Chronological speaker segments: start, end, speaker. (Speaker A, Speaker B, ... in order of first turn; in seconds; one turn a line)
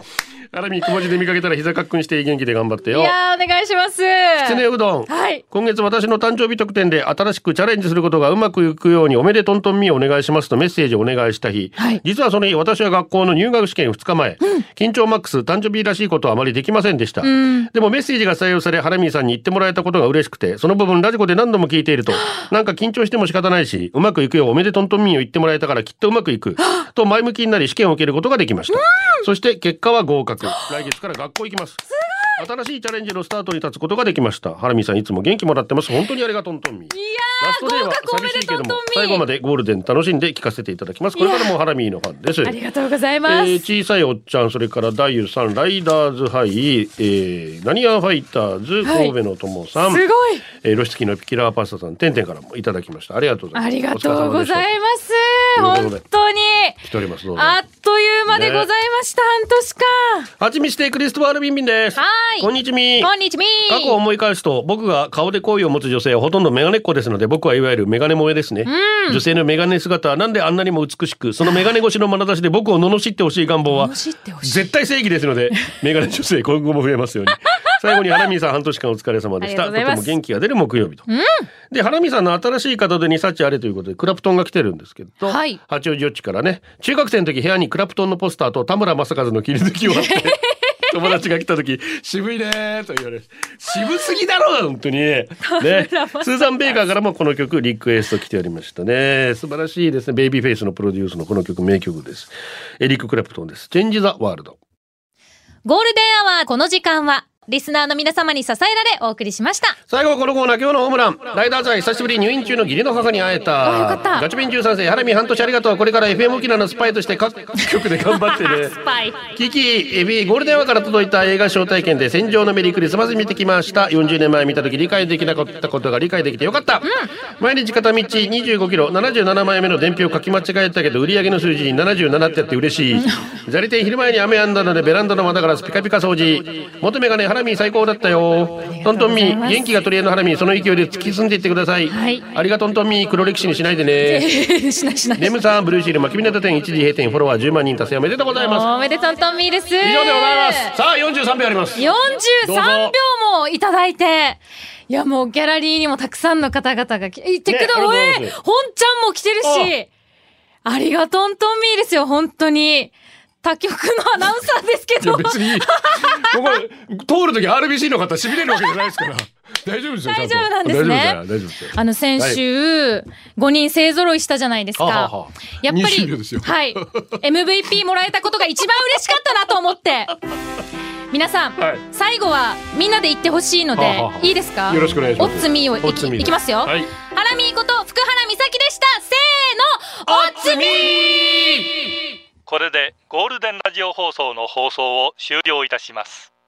Speaker A: 0.5-3.1
Speaker B: 2.9-5.4
Speaker A: 4.4-31.9
Speaker B: 17.2-17.7
Speaker B: 26.6-26.9
Speaker B: 28.7-29.3
Speaker B: 32.0-32.4
Speaker A: 32.4-42.6
Speaker B: 36.9-39.2
Speaker B: 41.2-41.5
Speaker B: 42.4-43.6
Speaker A: 43.2-54.7
Speaker B: 48.8-49.1
Speaker B: 49.9-50.5
Speaker B: 53.5-56.8
Speaker A: 55.6-56.0
Speaker A: 56.8-57.6
Speaker B: 57.4-60.3
Speaker A: 58.3-58.7
Speaker A: 60.4-63.1
Speaker B: 62.0-64.0
Speaker A: 63.7-81.1
Speaker B: 68.7-69.2
Speaker B: 73.7-74.7
Speaker B: 79.4-80.2
Speaker B: 81.1-81.5
Speaker A: 81.7-104.6
Speaker B: 85.3-85.6
Speaker B: 89.9-90.9
Speaker B: 95.5-96.8
Speaker B: 105.7-109.8
Speaker A: 109.9-118.8
Speaker B: 113.6-114.3
Speaker B: 118.1-119.2
Speaker A: 119.3-144.3
Speaker B: 138.7-139.6
Speaker B: 141.9-142.2
Speaker B: 144.0-145.4
Speaker A: 145.2-148.7
Speaker B: 148.4-150.8
Speaker A: 149.8-151.9
Speaker B: 151.8-159.9
Speaker A: 152.4-153.0
Speaker A: 157.5-158.4
Speaker A: 159.4-159.7
Speaker B: 160.7-166.6
Speaker A: 165.0-172.4
Speaker B: 170.0-171.2
Speaker B: 171.7-180.1
Speaker A: 174.8-177.1
Speaker B: 181.1-191.2
Speaker A: 181.6-181.8
Speaker A: 183.8-186.9
Speaker A: 190.1-192.0
Speaker C: 192.5-196.3